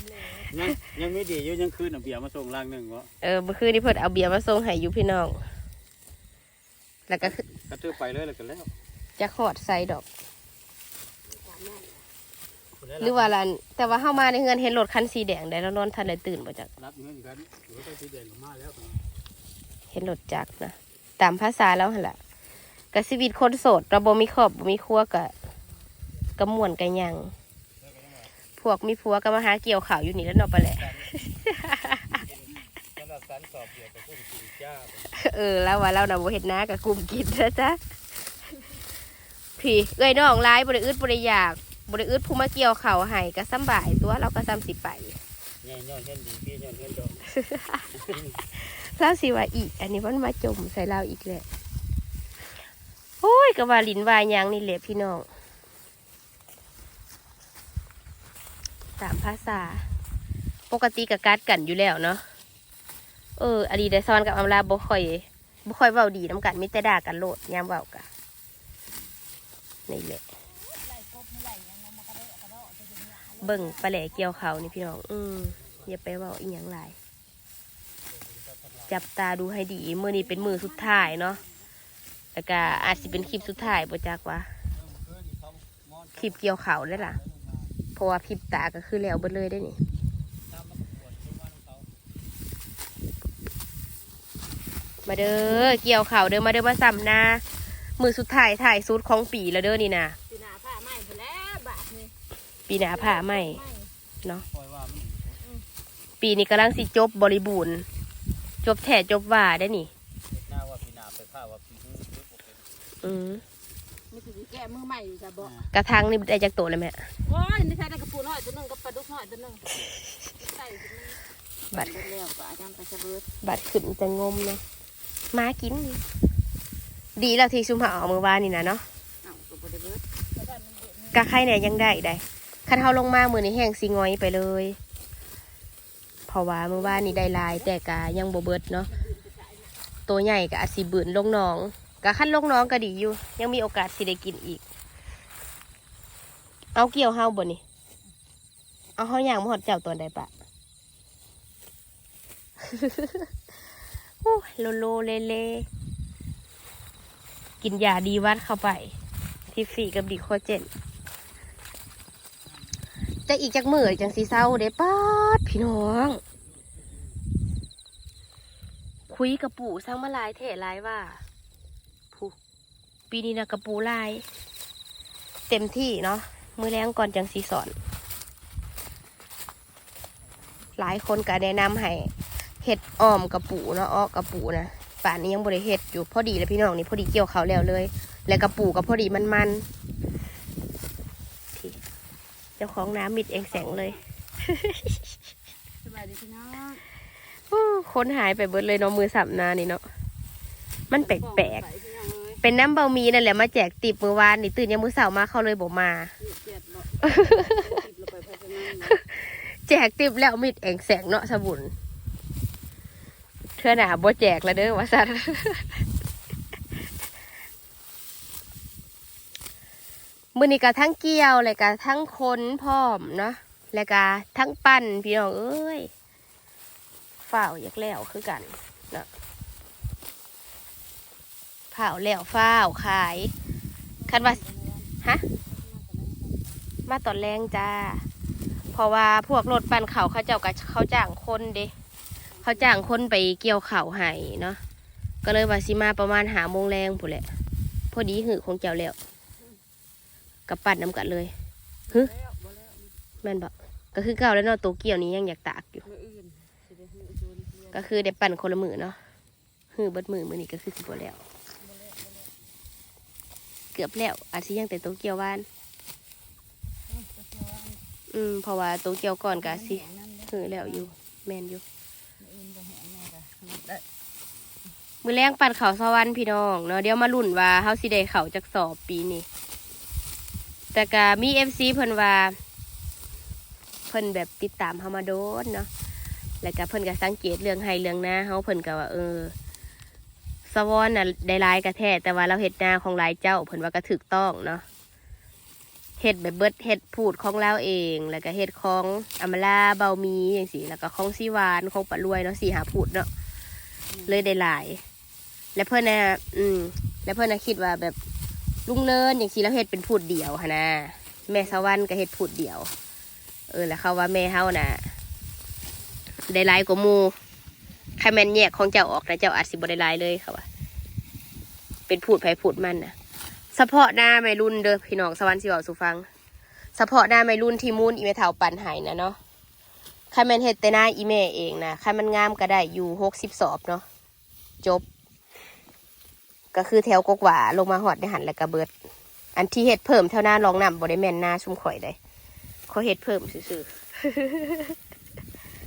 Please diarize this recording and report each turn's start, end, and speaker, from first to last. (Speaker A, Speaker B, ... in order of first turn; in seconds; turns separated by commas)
Speaker A: 0.4-3.1, Speaker B: 3.2-5.4, Speaker B: 7.1-7.4, Speaker A: 7.2-8.7, Speaker B: 9.2-10.1, Speaker C: 11.3-12.1, Speaker A: 12.8-13.3, Speaker B: 13.0-16.7, Speaker A: 16.8-19.0, Speaker B: 19.9-22.2, Speaker B: 22.9-25.3, Speaker B: 26.4-27.3, Speaker A: 27.8-28.3, Speaker B: 28.6-32.2, Speaker A: 30.5-31.2, Speaker A: 32.1-35.1, Speaker B: 35.1-37.8, Speaker B: 39.6-45.2, Speaker A: 45.6-47.3, Speaker B: 47.3-47.9, Speaker A: 48.0-48.4, Speaker B: 48.6-51.5, Speaker B: 53.2-55.3, Speaker B: 59.0-59.8, Speaker B: 60.7-62.2, Speaker B: 63.4-68.1, Speaker B: 69.9-70.2, Speaker C: 70.6-73.8, Speaker B: 73.4-77.0, Speaker A: 75.6-75.9, Speaker A: 78.1-78.9, Speaker B: 78.9-81.4, Speaker C: 80.2-81.6, Speaker B: 82.3-84.5, Speaker C: 82.8-83.8, Speaker A: 84.7-86.3, Speaker B: 86.2-87.2, Speaker A: 87.0-87.7, Speaker B: 88.0-89.8, Speaker A: 90.5-91.9, Speaker B: 95.1-97.4, Speaker B: 98.0-100.2, Speaker C: 100.3-102.1, Speaker B: 102.7-103.6, Speaker C: 102.9-103.9, Speaker A: 104.5-105.4, Speaker B: 106.2-107.9, Speaker B: 108.6-109.9, Speaker A: 110.3-112.6, Speaker B: 113.0-113.4, Speaker C: 114.1-115.5, Speaker A: 115.4-115.7, Speaker B: 115.7-117.0, Speaker C: 117.2-119.8, Speaker C: 120.4-121.2, Speaker B: 121.7-122.0, Speaker C: 121.7-123.3, Speaker B: 123.4-124.6, Speaker B: 125.3-126.0, Speaker B: 127.2-128.8, Speaker C: 129.2-131.2, Speaker B: 131.1-134.8, Speaker B: 136.3-138.9, Speaker C: 136.8-137.7, Speaker C: 138.9-139.7, Speaker B: 140.1-144.6, Speaker B: 146.8-147.6, Speaker B: 149.0-150.3, Speaker B: 152.7-153.3, Speaker B: 154.2-155.7, Speaker B: 157.6-158.9, Speaker B: 159.5-160.7, Speaker B: 163.3-166.2, Speaker B: 169.1-171.2, Speaker B: 173.1-174.2, Speaker B: 175.5-177.8, Speaker B: 180.8-182.1, Speaker B: 182.6-189.7, Speaker B: 192.6-195.0, Speaker C: 193.5-194.0, Speaker C: 195.8-196.8, Speaker B: 197.5-199.8, Speaker B: 200.9-201.6, Speaker C: 200.9-202.4, Speaker B: 202.4-206.1, Speaker C: 206.2-209.0, Speaker B: 207.0-207.7, Speaker B: 208.8-211.7, Speaker B: 213.6-215.8, Speaker B: 220.3-225.9, Speaker B: 227.2-229.1, Speaker B: 231.7-233.3, Speaker C: 234.0-236.5, Speaker B: 234.1-234.4, Speaker B: 236.9-238.1, Speaker B: 238.7-241.7, Speaker C: 242.4-242.8, Speaker B: 242.4-244.6, Speaker B: 245.2-247.3, Speaker B: 247.9-249.0, Speaker B: 250.5-251.3, Speaker C: 251.9-252.9, Speaker B: 253.2-255.8, Speaker C: 255.8-257.9, Speaker B: 257.7-259.0, Speaker B: 259.7-261.2, Speaker C: 261.6-262.3, Speaker B: 263.7-265.5, Speaker C: 266.9-267.9, Speaker B: 268.1-271.6, Speaker C: 269.4-270.9, Speaker C: 272.2-273.8, Speaker B: 275.0-279.3, Speaker B: 280.7-282.4, Speaker B: 283.9-285.7, Speaker B: 286.4-289.3, Speaker B: 290.5-294.6, Speaker B: 296.0-303.1, Speaker C: 303.9-304.2, Speaker B: 304.1-304.8, Speaker B: 305.6-308.0, Speaker B: 308.7-312.7, Speaker B: 313.5-314.8, Speaker B: 316.3-317.1, Speaker B: 318.0-320.5, Speaker B: 321.9-322.9, Speaker B: 323.5-326.1, Speaker B: 326.8-329.2, Speaker B: 330.1-333.8, Speaker B: 336.5-338.7, Speaker B: 339.4-342.0, Speaker B: 342.7-344.8